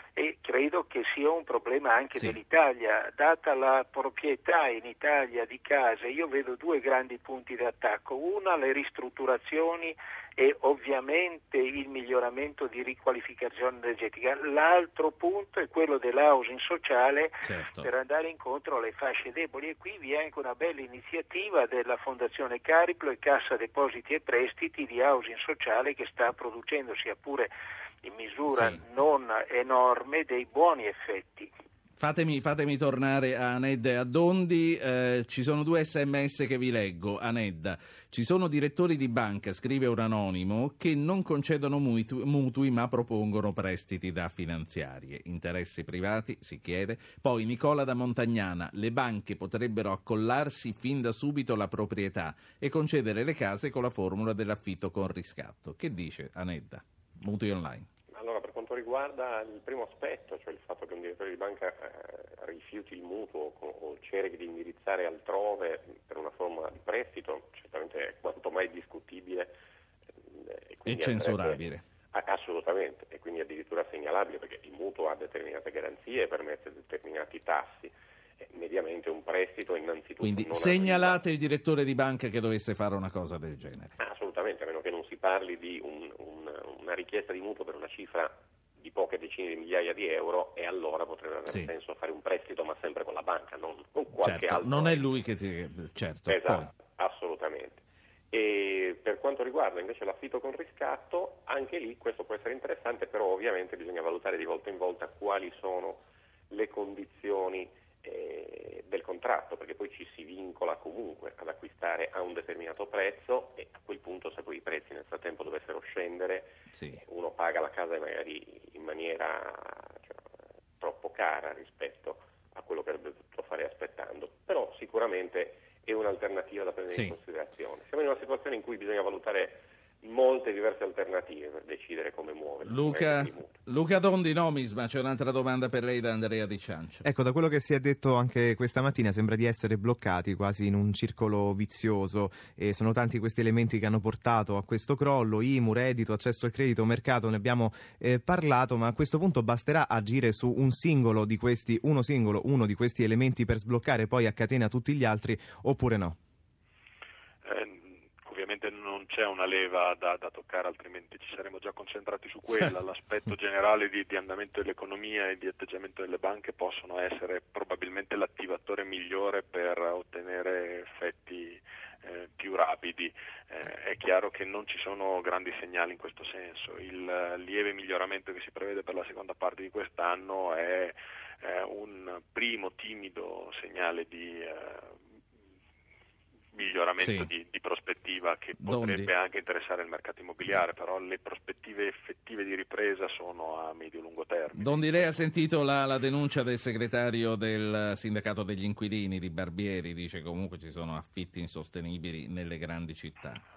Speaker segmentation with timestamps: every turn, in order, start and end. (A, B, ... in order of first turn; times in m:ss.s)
0:00.2-0:27.5 A
0:17.4-0:17.9 B
0:28.0-0:31.5 A
0:28.5-0:28.8 B
0:32.0-0:57.9 B
0:58.1-1:09.5 C
1:10.2-1:21.2 C
1:10.8-1:11.8 B
1:20.2-1:23.9 B
1:24.0-1:35.1 C
1:34.2-1:36.7 B
1:36.3-2:00.2 C
1:56.7-1:57.0 B
2:00.8-2:13.6 C
2:12.6-2:17.0 B
2:17.0-2:36.2 D
2:37.4-3:05.0 E
3:06.5-3:15.2 E
3:07.0-3:07.3 B
3:08.6-3:09.1 B
3:14.6-3:23.4 B